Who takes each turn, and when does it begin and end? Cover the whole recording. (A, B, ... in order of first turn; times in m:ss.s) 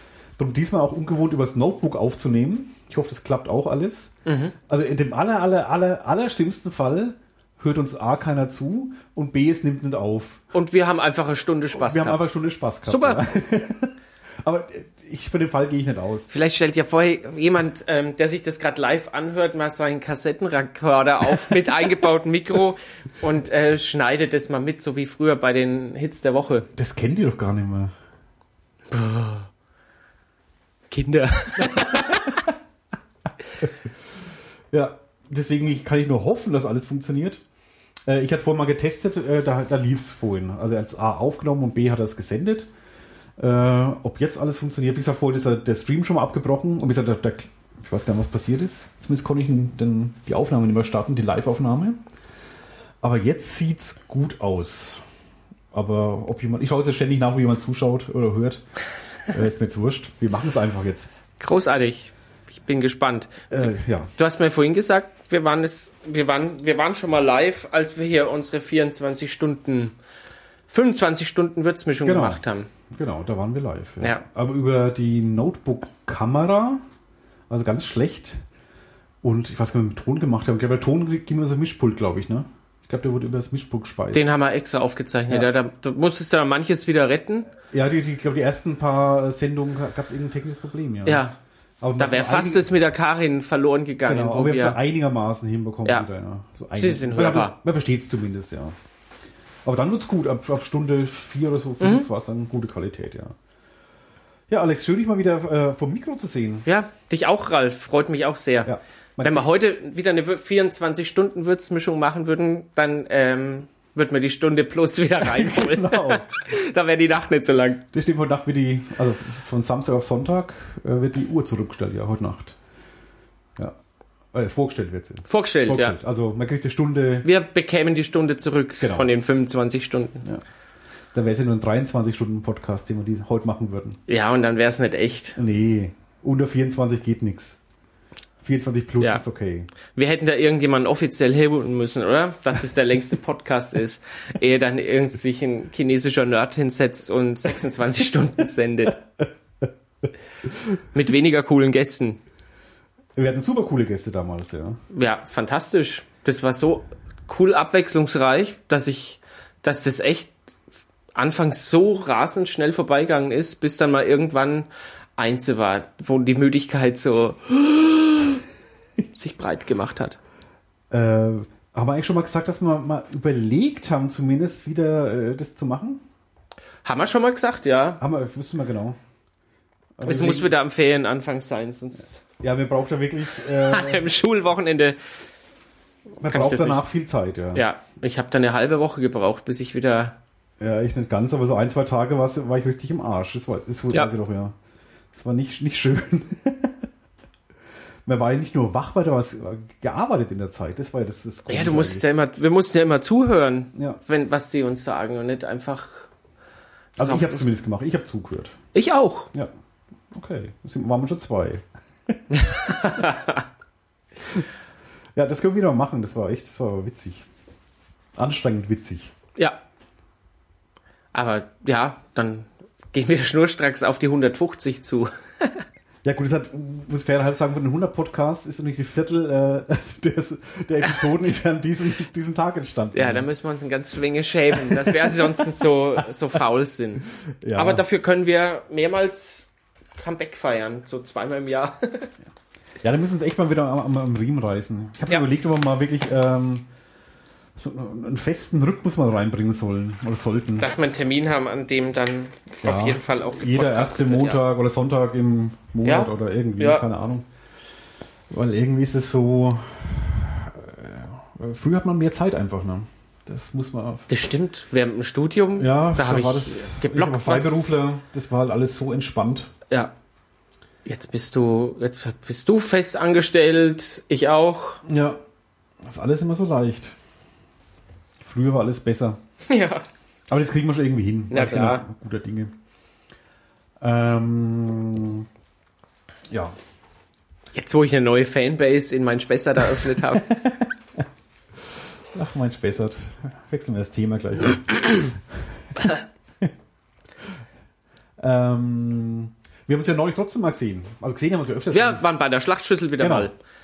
0:00.4-0:04.1 A
0:04.2-0:04.5 B
0:04.7-0:10.4 A
0:10.5-0:12.3 B
0:11.7-0:16.3 A
0:12.8-0:13.2 B
0:16.3-0:26.7 B
0:26.7-0:27.9 A
0:28.9-0:29.5 B
0:30.9-0:32.5 B
0:31.6-0:32.5 A
0:33.6-0:33.9 A
0:34.7-0:37.4 A
0:38.0-0:42.7 A
0:43.4-0:52.0 A
0:53.0-0:55.0 A
0:55.7-0:58.6 A
0:59.3-1:01.1 A
1:01.4-1:09.9 B
1:03.5-1:04.1 A
1:10.7-1:12.7 B
1:12.0-1:16.8 A
1:17.5-1:18.4 A
1:19.2-1:24.3 A
1:24.1-1:27.5 B
1:27.7-1:31.2 A
1:31.0-1:31.3 B
1:31.8-1:32.7 A
1:32.0-1:34.8 B
1:34.0-1:38.7 A
1:36.7-1:37.6 B
1:39.6-1:43.3 A
1:41.8-1:42.1 B
1:44.5-1:46.6 A
1:46.6-1:57.8 B
1:48.6-1:49.5 A
1:55.2-1:56.2 A
1:57.9-2:02.6 A
2:04.3-2:07.3 A
2:05.3-2:06.0 B
2:07.2-2:10.2 B
2:08.8-2:09.1 A
2:11.1-2:14.0 A
2:14.1-2:15.4 B
2:15.4-2:17.6 A
2:18.4-2:19.7 A
2:19.9-2:29.0 B
2:30.9-2:32.2 B
2:33.2-2:34.8 A
2:34.9-2:40.3 B
2:41.1-2:48.4 B
2:49.1-2:50.2 B
2:50.9-2:56.0 A
2:56.8-2:58.0 B
2:58.0-2:59.0 A
3:00.0-3:00.5 A
3:00.0-3:02.2 B
3:02.4-3:04.0 A
3:03.6-3:05.0 B
3:06.2-3:07.6 A
3:06.2-3:06.8 B
3:07.5-3:10.2 B
3:10.6-3:14.5 A
3:15.1-3:16.8 A
3:18.0-3:22.0 A
3:21.5-3:26.1 B
3:23.7-3:24.0 A
3:27.0-3:28.5 A
3:27.0-3:27.5 B
3:28.7-3:29.3 B
3:30.1-3:32.1 A
3:32.3-3:33.4 B
3:35.1-3:37.2 A
3:38.2-3:39.1 A
3:41.1-3:45.6 B
3:46.0-3:53.3 A
3:52.9-4:02.1 B
3:54.6-3:55.3 A
3:57.4-3:57.8 A
4:02.8-4:06.7 A
4:07.6-4:10.7 A
4:10.6-4:14.4 B
4:12.6-4:17.2 A
4:15.8-4:16.8 B
4:18.3-4:24.1 A
4:24.1-4:27.7 B
4:25.6-4:29.5 A
4:30.8-4:34.8 B
4:34.8-4:35.2 A
4:35.8-4:37.0 A
4:38.2-4:39.2 A
4:39.4-4:39.8 B
4:40.3-4:42.5 A
4:41.3-4:41.8 B
4:43.8-4:45.2 A
4:46.3-4:46.6 A
4:47.5-4:50.4 B
4:50.3-4:51.0 A
4:52.1-4:55.2 A
4:55.8-4:56.5 A
4:58.2-5:02.0 A
5:01.7-5:03.3 B
5:03.0-5:03.3 A